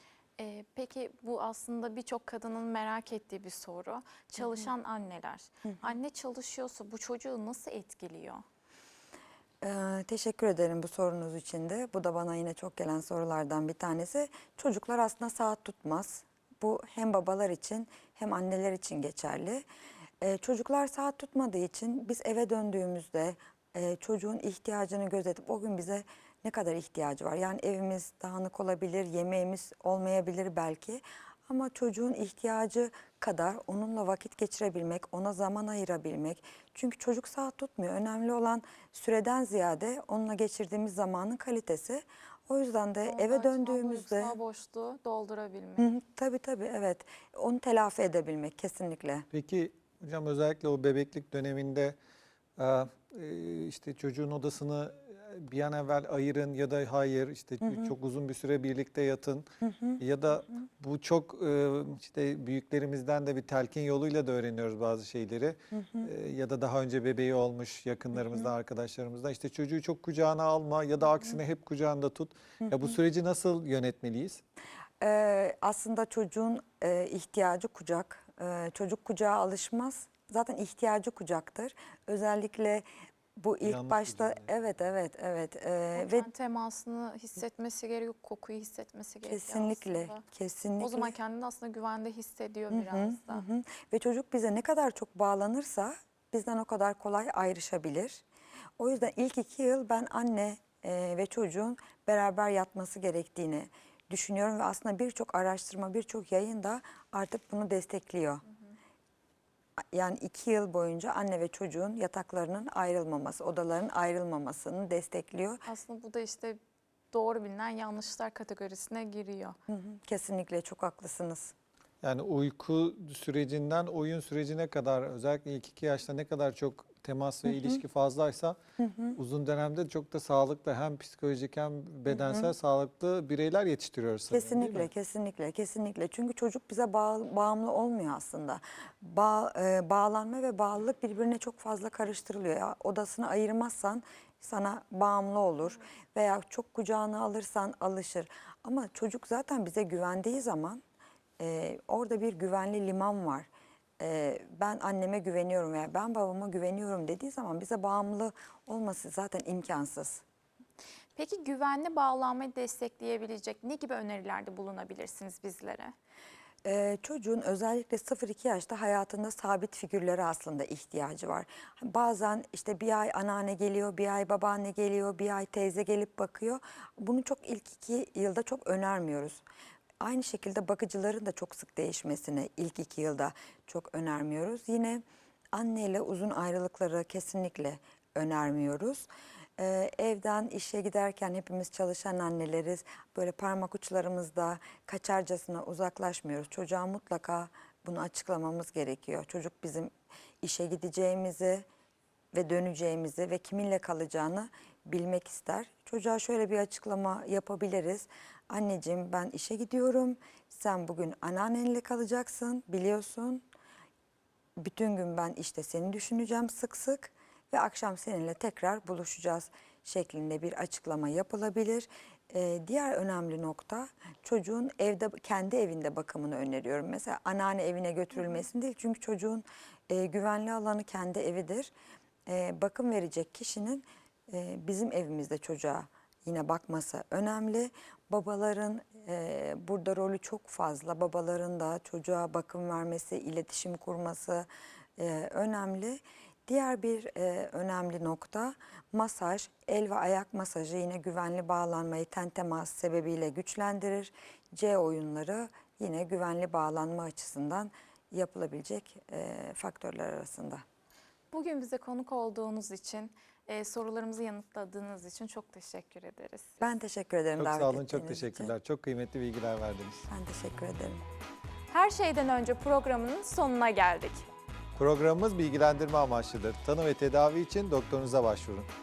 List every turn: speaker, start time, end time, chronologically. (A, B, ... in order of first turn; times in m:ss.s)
0:00.4-0:08.4 A
0:09.6-0:19.6 B
0:20.2-0:44.4 B
0:43.0-0:45.9 A
0:45.8-0:49.3 B
0:49.3-0:52.0 C
0:52.6-0:59.5 C
0:57.6-0:57.9 B
0:59.6-1:00.0 B
1:00.0-1:14.4 C
1:05.7-1:06.1 B
1:15.0-1:26.3 B
1:23.6-1:24.5 C
1:26.0-1:30.2 A
1:29.2-1:31.1 B
1:30.8-1:33.4 A
1:32.7-1:38.2 B
1:38.8-1:48.4 B
1:49.9-1:55.6 B
1:55.6-1:56.6 A
1:57.1-1:59.6 A
1:59.7-2:01.5 B
2:02.0-2:08.6 C
2:08.8-2:09.2 B
2:09.2-2:14.9 C
2:12.1-2:12.5 B
2:14.3-2:30.8 B
2:31.4-2:40.2 B
2:41.2-2:45.9 A
2:46.6-2:59.4 B
3:00.0-3:09.1 B
3:09.6-3:21.6 B
3:22.3-3:33.4 B
3:34.6-3:51.7 B
3:52.3-4:04.5 B
4:05.0-4:20.6 B
4:21.3-4:26.6 A
4:26.6-4:28.5 B
4:27.4-4:30.1 C
4:30.1-4:31.0 B
4:31.7-4:34.2 A
4:34.8-4:38.7 C